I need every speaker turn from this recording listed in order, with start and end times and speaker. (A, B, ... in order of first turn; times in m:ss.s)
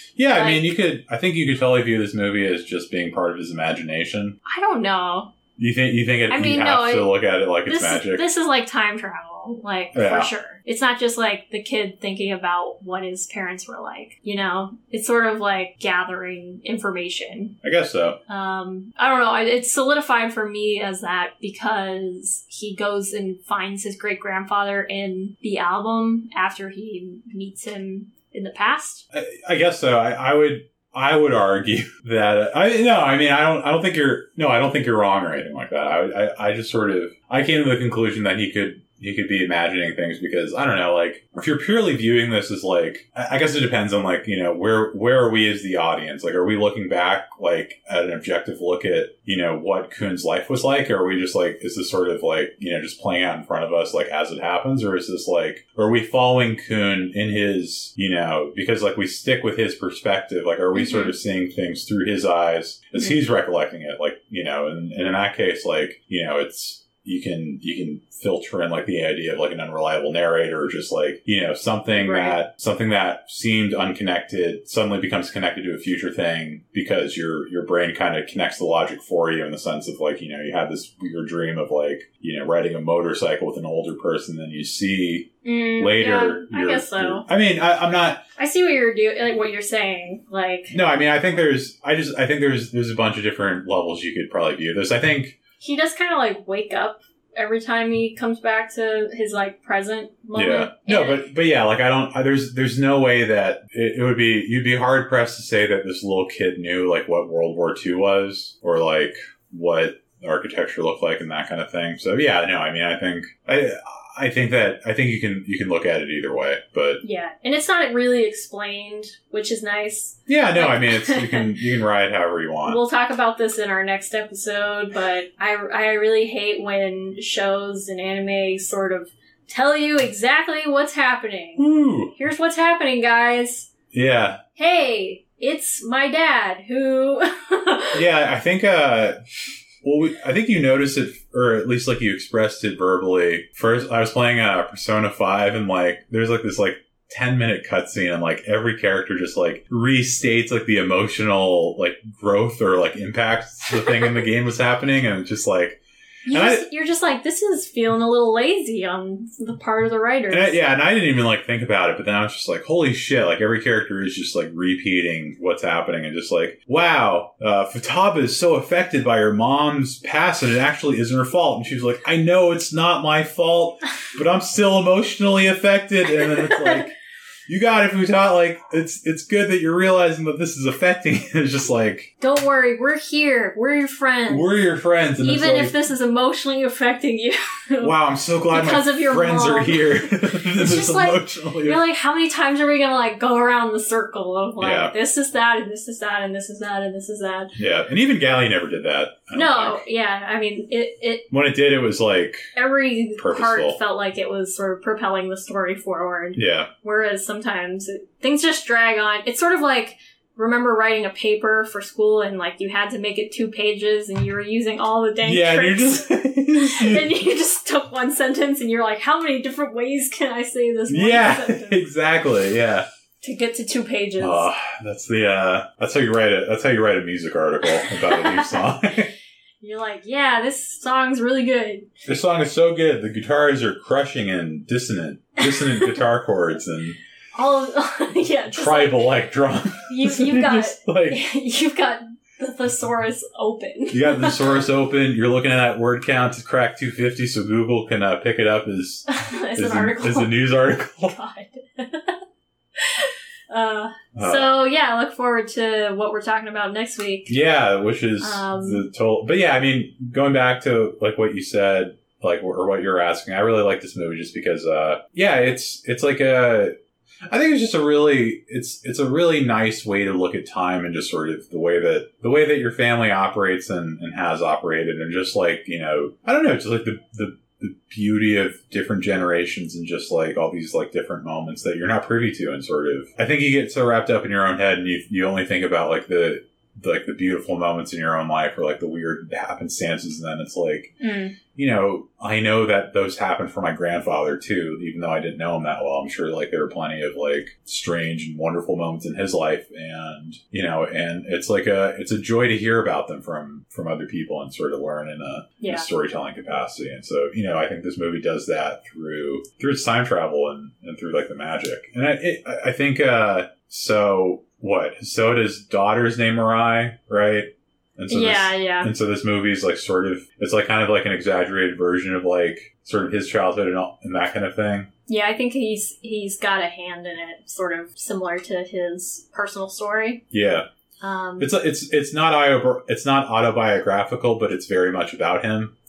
0:00.2-0:04.4 A
0:00.3-0:00.7 B
0:04.4-0:05.3 B
0:05.6-0:08.2 A
0:06.3-0:07.1 B
0:07.6-0:17.5 B
0:09.9-0:10.3 A
0:17.6-0:18.2 A
0:18.3-0:29.0 B
0:29.1-1:28.2 A
1:00.7-1:01.1 B
1:11.9-1:12.4 B
1:25.4-1:27.2 B
1:28.4-1:30.7 B
1:30.7-1:35.4 A
1:35.6-1:41.2 B
1:40.3-1:57.0 A
1:57.0-2:01.5 B
2:00.3-2:02.8 A
2:02.6-2:13.7 B
2:11.6-2:12.1 A
2:13.9-2:14.4 A
2:14.6-2:18.0 B
2:17.9-2:19.2 A
2:19.8-2:36.6 A
2:36.3-2:40.6 B
2:40.3-2:56.9 A
2:57.5-3:02.1 A
3:02.2-3:04.6 B
3:04.3-3:05.7 A
3:05.2-3:07.9 B
3:07.8-3:11.8 A
3:08.5-3:17.5 B
3:14.6-3:14.9 A
3:17.6-3:19.8 A
3:19.3-3:21.3 B
3:21.3-3:22.5 A
3:22.5-3:41.9 B
3:23.2-3:23.8 A
3:26.4-3:26.7 A
3:35.2-3:37.1 A
3:40.9-3:42.8 A
3:43.2-3:44.5 B
3:44.2-3:49.1 A
3:47.8-3:48.6 B
3:49.6-3:51.9 B
3:52.0-3:57.0 A
3:55.5-3:56.0 B
3:57.3-3:59.1 B
3:58.5-4:01.2 A
3:59.9-4:04.6 B
4:03.9-4:11.2 A
4:09.1-4:10.4 B
4:11.0-4:12.2 B
4:12.8-4:17.3 B
4:14.1-4:14.5 A
4:17.3-4:26.8 A
4:18.2-4:18.8 B
4:27.3-4:50.9 A
4:51.0-4:51.4 B
4:51.5-5:24.9 A
5:05.6-5:05.9 B
5:18.1-5:18.9 B
5:25.1-5:30.2 B
5:30.3-5:30.7 A
5:31.0-5:31.5 B
5:31.4-5:35.7 A